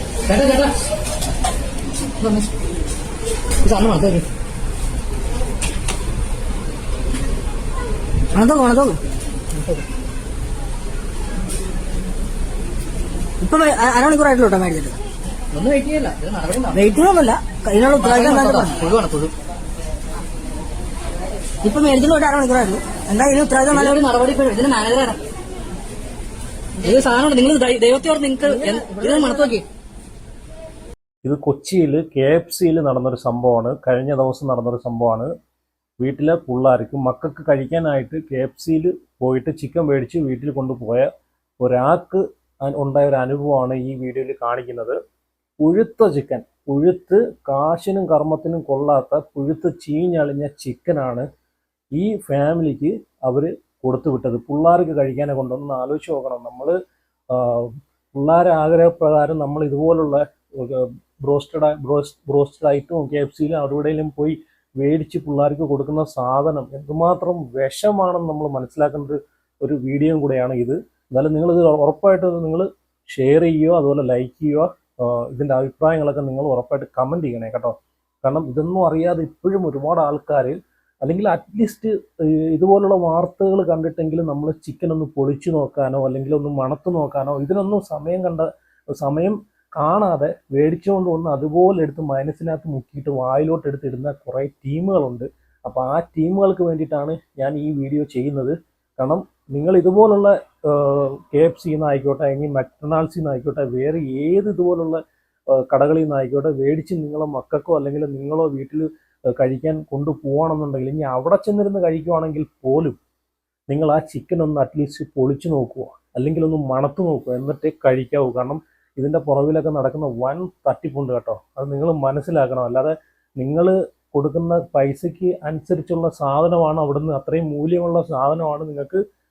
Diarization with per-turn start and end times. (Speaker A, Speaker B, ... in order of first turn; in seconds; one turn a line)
Speaker A: 0.2-0.7
Speaker A: 2.2-2.5
Speaker A: 3.6-4.3
Speaker B: 8.3-9.0
Speaker A: 9.5-9.8
Speaker B: 13.4-15.0
Speaker A: 15.5-16.8
Speaker B: 16.7-18.8
Speaker A: 18.0-19.3
Speaker B: 21.6-24.0
Speaker A: 23.7-25.2
Speaker A: 26.8-29.6
Speaker B: 28.5-29.6
Speaker C: 31.2-35.3
Speaker C: 36.0-45.0
Speaker C: 45.6-51.2
Speaker C: 51.9-56.7
Speaker C: 57.3-105.0
Speaker C: 105.5-113.0
Speaker C: 113.7-129.0